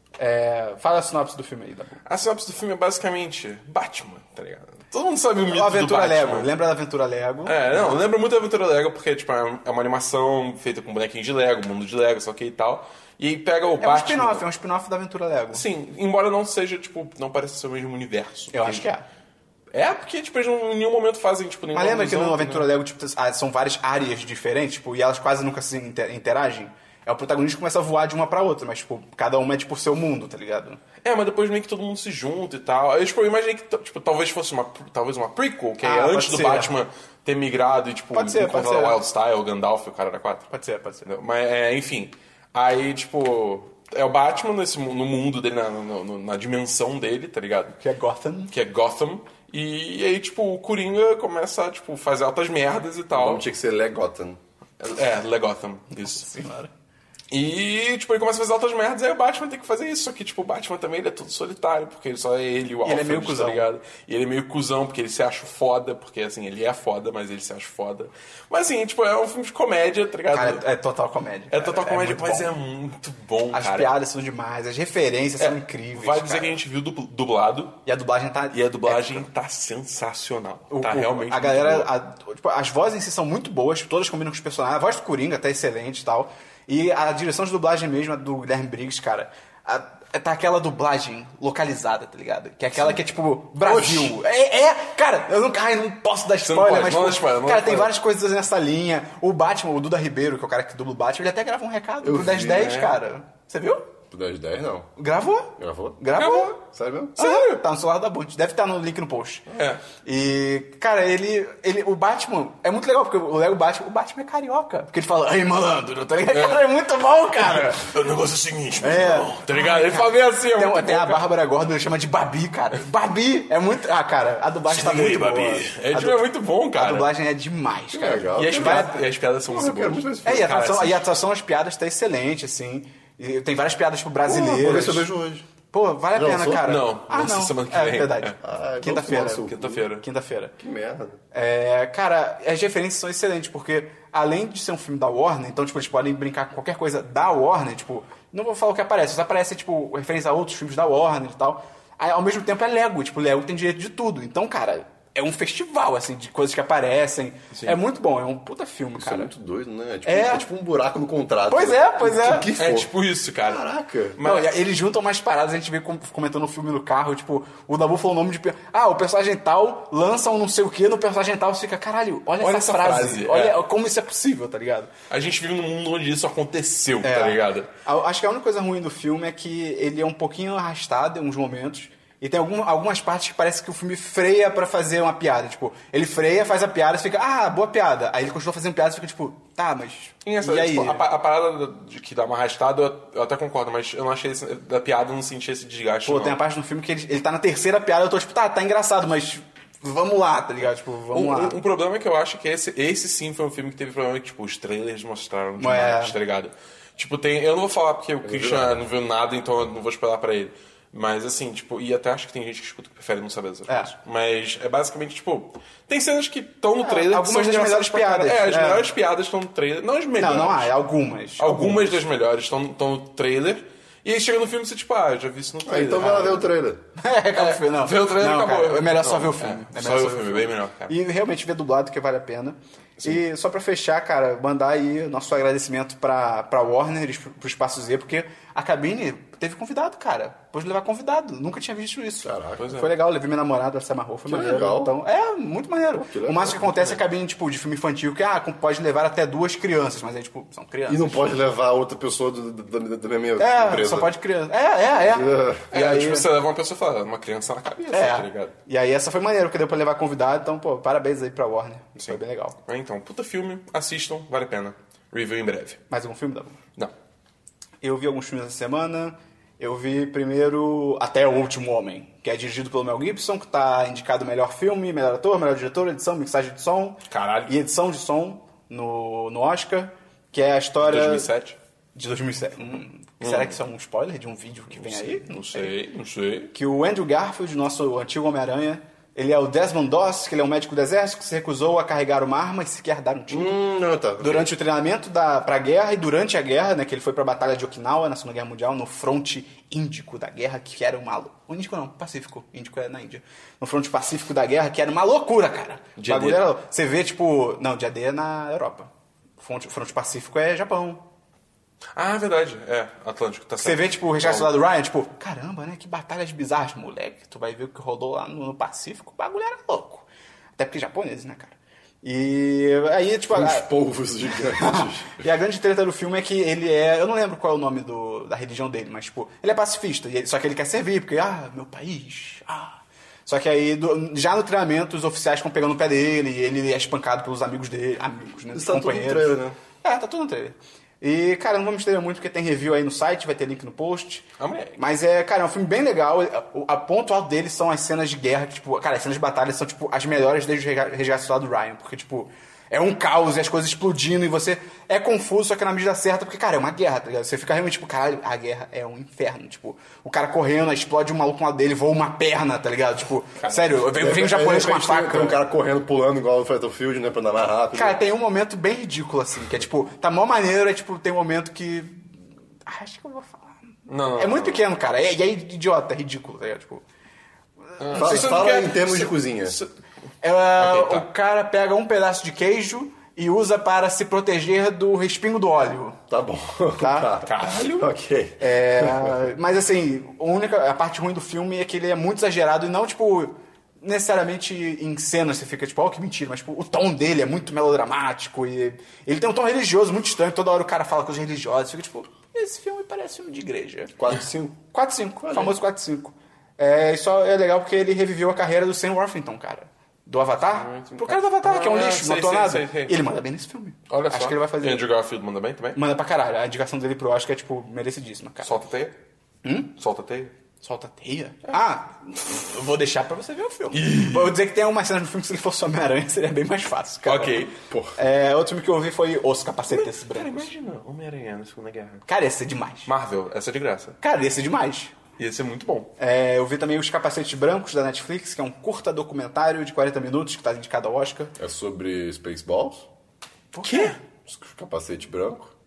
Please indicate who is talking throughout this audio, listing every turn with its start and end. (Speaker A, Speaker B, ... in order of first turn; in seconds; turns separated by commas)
Speaker A: 0.2-2.0, Speaker B: 2.0-6.5, Speaker A: 5.5-8.0, Speaker B: 7.5-14.5, Speaker A: 13.8-15.7, Speaker B: 15.5-18.9, Speaker A: 18.5-19.1, Speaker B: 19.7-22.7, Speaker A: 21.7-30.8, Speaker B: 31.0-40.5, Speaker A: 35.8-36.7, Speaker A: 38.1-39.0, Speaker A: 40.5-41.1, Speaker B: 41.0-47.8, Speaker A: 47.8-48.5, Speaker B: 48.5-53.4, Speaker C: 53.1-54.4, Speaker B: 54.8-56.2, Speaker A: 55.9-56.7, Speaker B: 57.3-70.6, Speaker A: 62.8-63.7, Speaker A: 70.3-72.5, Speaker B: 71.5-73.9, Speaker A: 73.5-76.6, Speaker B: 75.4-77.8, Speaker A: 77.8-79.3, Speaker B: 78.5-81.9, Speaker A: 80.7-103.9, Speaker C: 93.6-94.1, Speaker B: 96.4-98.0, Speaker C: 102.0-102.8, Speaker B: 102.5-103.0, Speaker C: 104.1-104.9, Speaker A: 105.0-106.6, Speaker C: 105.6-107.2, Speaker B: 106.2-106.5, Speaker A: 107.2-117.9, Speaker B: 107.2-107.6, Speaker B: 109.5-109.8, Speaker B: 116.3-116.6, Speaker B: 117.5-121.3, Speaker A: 118.8-129.0, Speaker B: 124.7-127.1, Speaker C: 127.9-130.6, Speaker B: 128.3-131.1, Speaker A: 130.2-135.1, Speaker C: 134.3-135.5, Speaker A: 135.7-140.6, Speaker C: 136.2-136.7, Speaker B: 136.6-138.4, Speaker C: 138.4-139.9, Speaker B: 139.2-140.1, Speaker C: 140.6-141.2, Speaker A: 141.3-159.3, Speaker B: 157.5-157.8, Speaker C: 159.0-162.9, Speaker A: 160.1-160.5, Speaker A: 161.5-162.5, Speaker B: 162.5-164.6, Speaker C: 163.4-164.2, Speaker A: 164.2-174.9, Speaker B: 172.4-173.6, Speaker B: 175.1-177.7, Speaker A: 177.0-191.0, Speaker B: 190.2-196.4, Speaker A: 196.1-201.6, Speaker B: 201.1-220.7, Speaker A: 205.6-206.2, Speaker C: 208.2-208.8, Speaker A: 216.8-218.9, Speaker A: 220.2-222.0, Speaker B: 221.4-226.5, Speaker C: 225.7-226.8, Speaker A: 227.0-251.2, Speaker B: 227.3-231.0, Speaker C: 242.2-242.7, Speaker B: 242.6-242.9, Speaker C: 244.3-244.9, Speaker C: 246.0-246.6, Speaker B: 246.6-247.0, Speaker C: 250.9-254.1, Speaker A: 253.4-256.3, Speaker C: 255.0-255.7, Speaker B: 255.7-258.5, Speaker A: 257.9-262.6, Speaker B: 262.0-265.8, Speaker A: 265.9-266.6, Speaker A: 267.8-281.3, Speaker B: 277.1-277.5, Speaker B: 280.8-281.6, Speaker A: 281.9-285.7, Speaker B: 283.2-283.6, Speaker B: 284.7-286.5, Speaker A: 286.5-293.6, Speaker C: 293.3-294.5, Speaker A: 294.2-311.0, Speaker B: 306.0-306.4, Speaker B: 311.9-314.5, Speaker A: 313.6-320.1, Speaker A: 320.6-323.7, Speaker C: 323.3-325.2, Speaker A: 324.3-365.4, Speaker C: 338.5-339.6, Speaker B: 344.4-344.8, Speaker B: 363.4-363.8, Speaker C: 363.9-368.0, Speaker A: 367.7-376.8, Speaker B: 373.9-374.6, Speaker A: 377.8-378.5, Speaker B: 377.8-379.7, Speaker C: 377.9-379.6, Speaker A: 380.2-386.0, Speaker B: 380.6-381.1, Speaker C: 386.1-389.3, Speaker A: 386.8-387.2, Speaker B: 387.2-387.9, Speaker A: 388.4-404.0, Speaker C: 404.0-404.6, Speaker A: 404.7-414.9, Speaker C: 405.2-405.5, Speaker B: 410.5-413.1, Speaker B: 413.9-415.8, Speaker A: 415.7-418.6, Speaker B: 418.4-419.0, Speaker A: 419.4-419.7, Speaker B: 419.8-420.3, Speaker A: 420.6-430.5, Speaker B: 423.7-424.4, Speaker B: 427.1-427.7, Speaker B: 429.7-432.1, Speaker A: 432.1-432.9, Speaker B: 432.9-434.0, Speaker A: 434.0-434.9, Speaker B: 435.2-435.9, Speaker A: 436.0-441.4, Speaker C: 441.4-442.9, Speaker A: 443.5-444.0, Speaker B: 443.6-444.0, Speaker C: 444.3-445.5